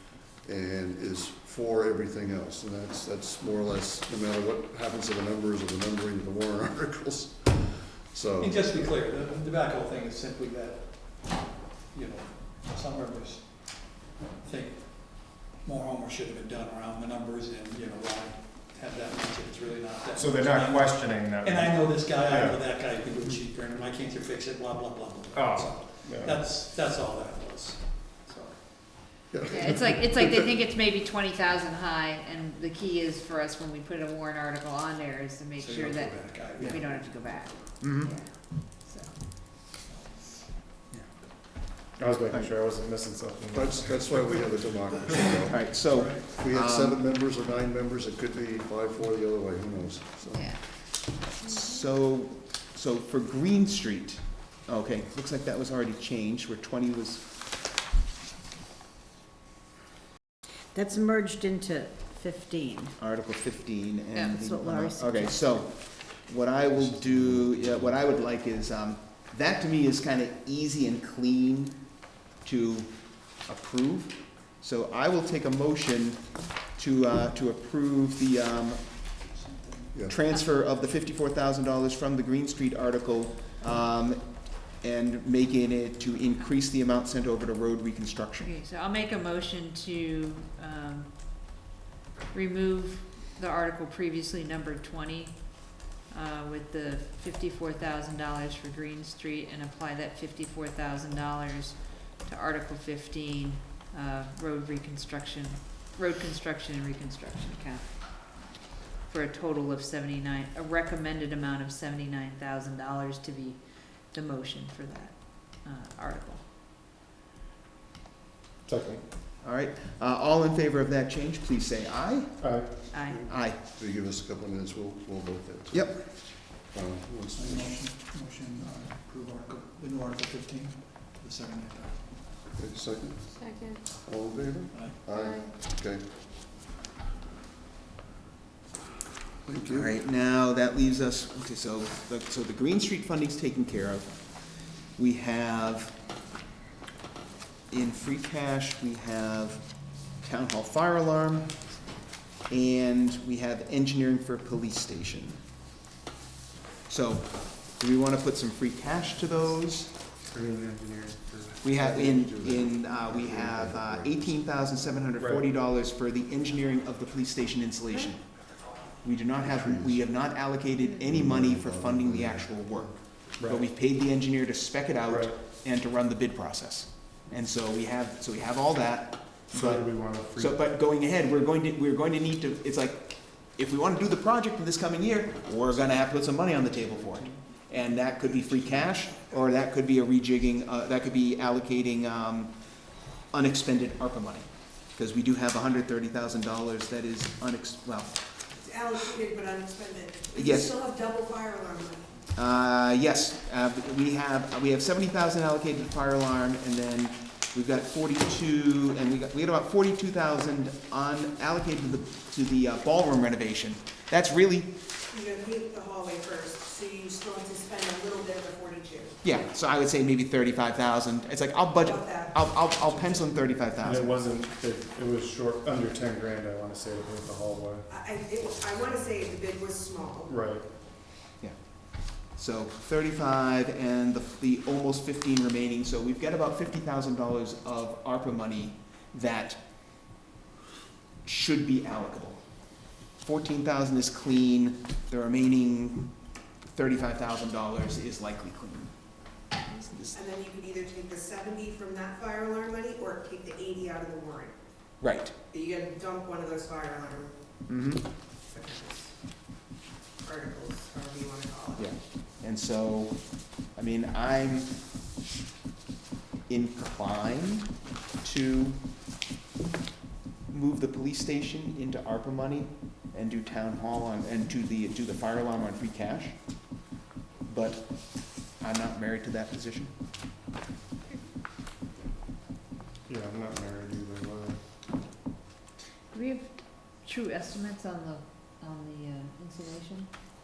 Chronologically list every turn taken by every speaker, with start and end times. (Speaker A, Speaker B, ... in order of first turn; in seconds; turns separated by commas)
Speaker A: 0.4-9.0, Speaker B: 8.4-13.9, Speaker B: 14.4-29.5, Speaker C: 20.1-22.6, Speaker C: 25.3-26.4, Speaker A: 29.3-30.4, Speaker D: 29.5-39.3, Speaker B: 35.6-38.0, Speaker E: 37.8-38.1, Speaker B: 39.3-40.3, Speaker C: 42.0-44.5, Speaker A: 43.5-50.5, Speaker E: 45.5-47.0, Speaker B: 45.9-46.2, Speaker D: 50.3-50.6, Speaker E: 51.3-57.2, Speaker F: 60.7-62.9, Speaker E: 63.0-71.9, Speaker D: 64.1-64.5, Speaker F: 64.4-65.3, Speaker E: 72.4-78.9, Speaker B: 79.3-79.9, Speaker A: 79.9-80.2, Speaker E: 80.1-88.5, Speaker D: 88.4-91.5, Speaker D: 92.3-108.4, Speaker D: 109.1-116.4, Speaker C: 118.7-119.0, Speaker E: 119.4-122.5, Speaker C: 122.4-122.9, Speaker D: 122.9-123.3, Speaker A: 123.0-127.8, Speaker E: 123.3-123.6, Speaker E: 125.7-126.0, Speaker B: 127.4-132.0, Speaker A: 132.5-136.0, Speaker B: 134.7-135.0, Speaker A: 139.4-139.9, Speaker E: 139.6-144.1, Speaker E: 144.9-145.9, Speaker E: 147.7-149.6, Speaker E: 150.2-151.6, Speaker E: 152.5-155.4, Speaker E: 156.9-159.9, Speaker C: 160.2-161.6, Speaker E: 161.6-192.5, Speaker A: 161.7-164.4, Speaker C: 165.2-165.5, Speaker A: 169.4-170.1, Speaker A: 171.0-172.8, Speaker C: 173.4-173.6, Speaker C: 175.1-175.4, Speaker C: 179.5-180.6, Speaker E: 193.3-198.2, Speaker G: 198.5-202.1, Speaker E: 200.3-200.7, Speaker E: 202.3-214.7, Speaker G: 215.1-219.2, Speaker E: 219.2-224.1, Speaker G: 221.8-222.6, Speaker C: 223.8-227.8, Speaker G: 227.9-230.3, Speaker C: 230.3-230.6, Speaker E: 231.4-239.6, Speaker E: 241.2-242.4, Speaker E: 243.2-246.1, Speaker E: 246.7-248.9, Speaker E: 249.7-250.2, Speaker G: 250.1-254.5, Speaker E: 255.0-255.3, Speaker G: 255.5-257.3, Speaker E: 257.7-258.1, Speaker G: 258.5-259.1, Speaker G: 260.2-261.9, Speaker E: 261.8-264.7, Speaker E: 266.5-268.8, Speaker E: 270.5-276.4, Speaker E: 277.4-279.9, Speaker C: 283.1-284.6, Speaker D: 286.1-290.1